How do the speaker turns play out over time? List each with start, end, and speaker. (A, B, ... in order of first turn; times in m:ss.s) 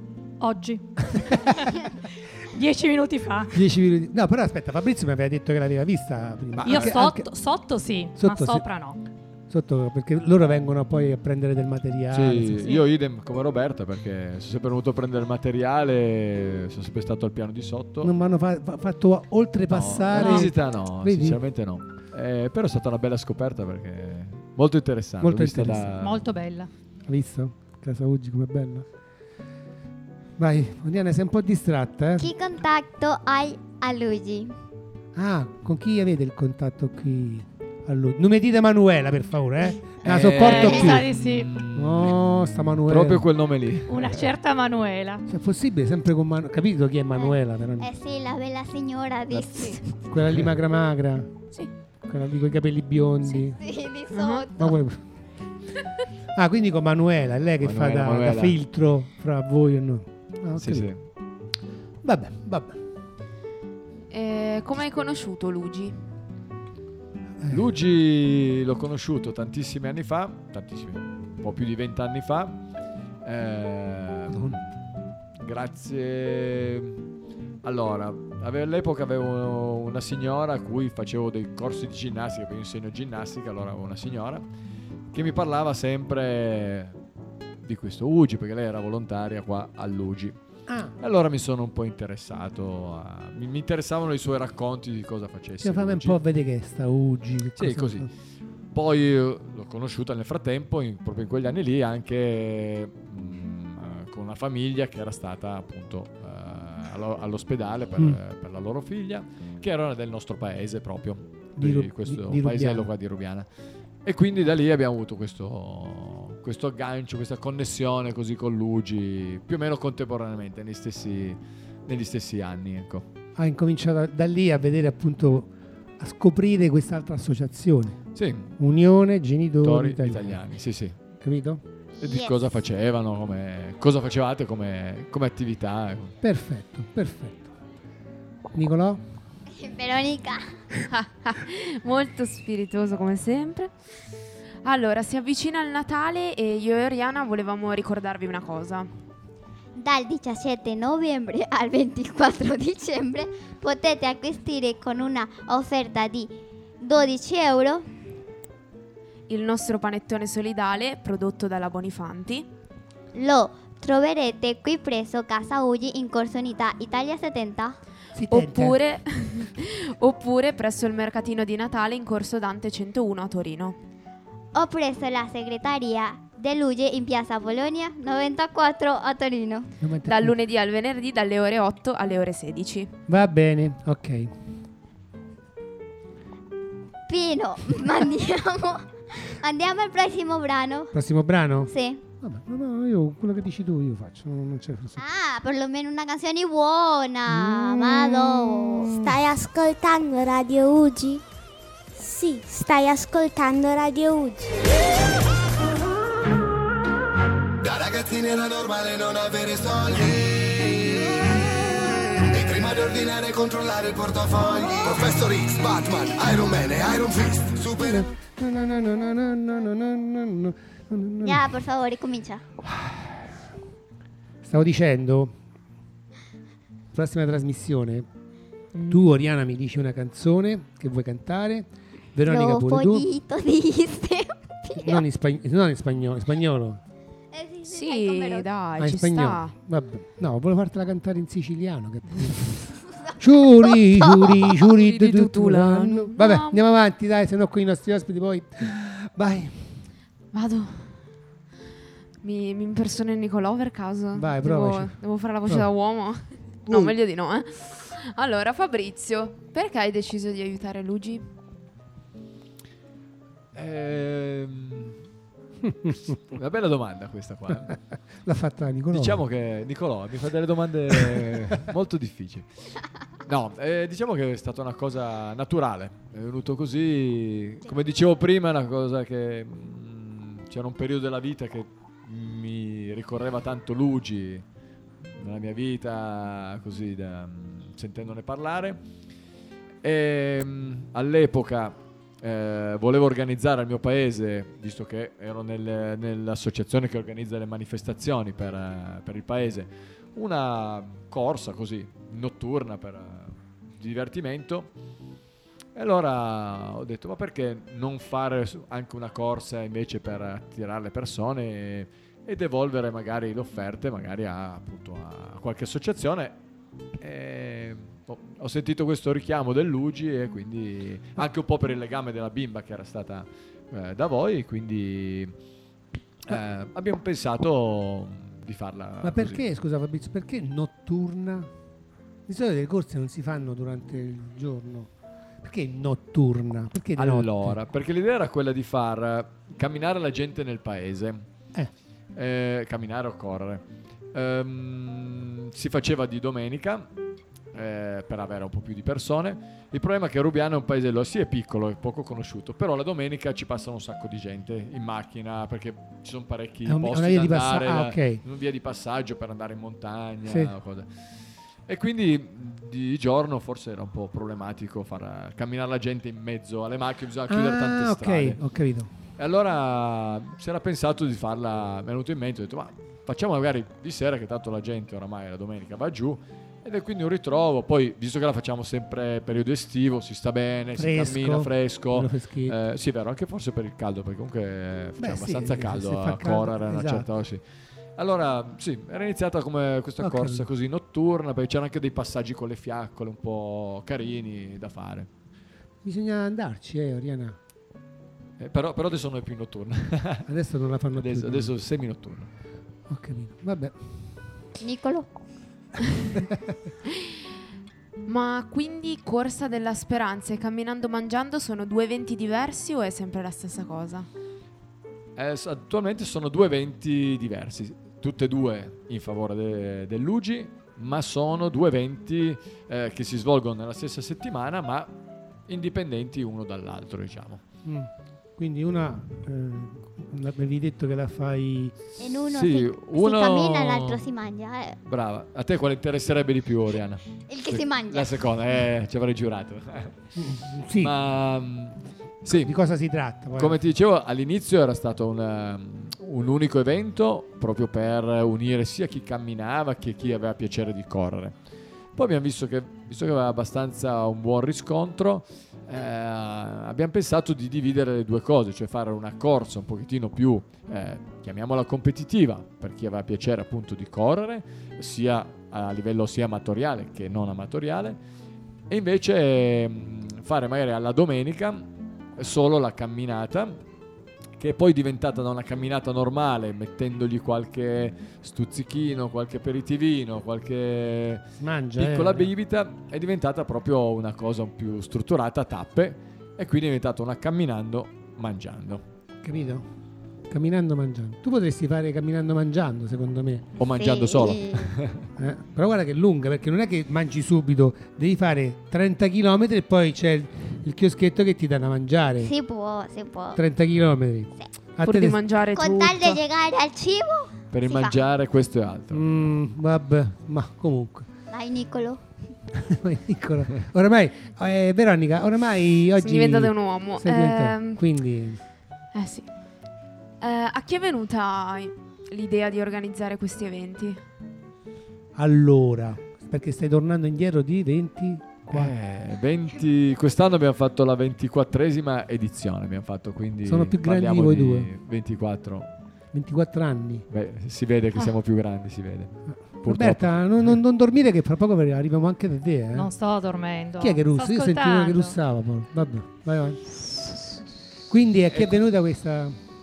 0:00.4-0:01.8 A
0:02.5-0:03.6 A
0:03.5-0:07.3 B
0:06.6-0:07.0 C
0:06.6-0:09.0 A
0:08.2-0:08.7 B
0:09.5-0:12.7 B
0:12.1-0:18.1 C
0:18.0-0:21.4 B
0:19.7-0:26.2 C
0:20.2-0:20.5 A
0:25.2-0:25.9 B
0:26.0-0:26.7 A
0:27.1-0:28.9 B
0:30.4-0:32.3 B
0:32.2-0:34.6 D
0:35.2-0:41.1 B
0:40.0-0:42.2 C
0:40.4-0:41.5 A
0:41.7-0:43.3 B
0:42.9-0:44.2 C
0:43.9-0:45.2 A
0:45.3-0:47.9 B
0:47.2-0:50.0 D
0:50.1-0:51.3 B
0:52.1-0:53.6 B
0:53.6-0:54.8 D
0:54.1-0:54.5 E
0:54.6-0:55.0 B
0:56.4-1:00.9 B
0:57.6-0:58.6 C
1:00.6-1:01.0 C
1:02.0-1:02.8 B
1:04.1-1:06.0 E
1:07.4-1:07.8 B
1:07.5-1:12.6 C
1:13.2-1:14.7 C
1:14.3-1:14.6 B
1:15.4-1:17.0 C
1:17.6-1:24.4 C
1:25.1-1:27.0 C
1:27.6-1:30.4 C
1:30.7-1:31.0 B
1:31.0-1:36.2 C
1:35.6-1:38.1 B
1:37.6-1:38.1 C
1:38.7-1:53.5 C
1:51.6-1:52.9 B
1:54.0-2:03.1 C
2:03.4-2:08.0 B
2:08.2-2:08.6 C
2:08.6-2:10.4 B
2:09.6-2:11.0 C
2:11.2-2:11.6 B
2:12.0-2:12.6 D
2:12.0-2:16.2 C
2:16.2-2:17.5 B
2:18.5-2:19.0 B
2:19.5-2:20.5 D
2:20.9-2:23.7 E
2:24.6-2:28.9 E
2:29.8-2:37.9 D
2:39.3-2:42.5 E
2:43.1-2:47.8 D
2:48.2-2:48.8 B
2:48.3-2:53.8 E
2:54.5-2:59.7 D
2:59.8-3:00.4 B
3:00.1-3:02.9 E
3:03.1-3:04.4 B
3:07.1-3:11.0 D
3:10.9-3:15.0 B
3:11.7-3:12.0 D
3:15.0-3:19.0 D
3:17.3-3:19.2 B
3:18.9-3:21.2 F
3:21.9-3:24.6 F
3:27.6-3:31.4 G
3:32.2-3:38.1 G
3:37.8-3:41.5 B
3:41.2-3:42.4 D
3:42.6-3:43.3 B
3:44.4-3:45.3 B
3:46.9-3:48.1 B
3:48.8-3:49.0 E
3:48.9-3:53.1 B
3:52.3-3:55.0 D
3:54.8-3:56.8 B
3:57.3-3:58.5 D
3:57.7-3:59.5 E
3:58.8-4:09.8 B
4:04.0-4:04.5 D
4:04.6-4:06.6 E
4:10.3-4:10.9 E
4:12.2-4:21.3 E
4:14.1-4:15.7 B
4:16.7-4:17.0 B
4:23.6-4:25.0 C
4:25.6-4:26.1 B
4:26.1-4:27.8 C
4:27.5-4:29.2 B
4:28.9-4:32.5 C
4:33.3-4:44.4 C
4:45.2-4:48.8 C
4:49.8-5:04.7 C
5:05.8-5:16.4 C
5:17.0-5:25.3 C
5:26.3-5:29.4 C
5:29.0-5:31.5 B
5:32.3-5:34.9 B
5:35.4-5:37.6 B
5:37.0-5:41.3 C
5:42.2-5:46.9 C
5:47.5-6:00.9 C
5:56.7-5:58.2 B
6:00.3-6:00.5 B
6:01.7-6:08.4 C
6:07.3-6:08.9 B
6:09.2-6:27.4 C
6:20.8-6:22.6 B
6:25.0-6:27.1 B
6:28.0-6:35.1 C
6:30.0-6:30.5 B
6:35.8-6:37.4 B
6:38.4-6:40.3 C
6:40.3-6:41.5 B
6:41.0-6:42.3 C
6:42.9-6:44.0 B
6:44.6-6:45.1 D
6:46.2-6:46.5 B
6:48.1-6:54.1 E
6:55.2-7:04.9 C
7:05.5-7:07.4 C
7:07.6-7:11.8 B
7:12.0-7:14.0 C
7:12.0-7:14.8 D
7:14.9-7:20.0 C
7:17.3-7:18.1 D
7:20.2-7:20.9 B
7:20.8-7:22.6 C
7:22.3-7:23.6 B
7:23.4-7:31.4 C
7:32.0-7:48.0 C
7:48.7-7:53.6 C
7:54.4-8:01.2 C
8:01.4-8:02.3 B
8:01.8-8:08.8 C
8:09.2-8:09.7 B
8:10.3-8:13.5 B
8:13.6-8:15.1 C
8:13.7-8:14.8 D
8:15.2-8:22.3 B
8:22.2-8:23.4 D
8:23.4-8:25.2 B
8:24.8-8:26.2 E
8:25.6-8:28.0 D
8:27.5-8:29.0 C
8:28.9-8:31.1 B
8:31.3-8:32.0 D
8:32.6-8:38.4 B
8:36.0-8:37.8 E
8:38.9-8:39.3 E
8:40.2-8:44.0 E
8:45.2-8:48.7 B
8:48.5-8:55.7 C
8:53.4-8:54.7 B
8:56.1-8:57.1 B
8:57.1-9:00.6 C
8:59.6-9:02.9 B
9:02.7-9:05.2 A
9:03.8-9:06.6 B
9:07.9-9:09.4 B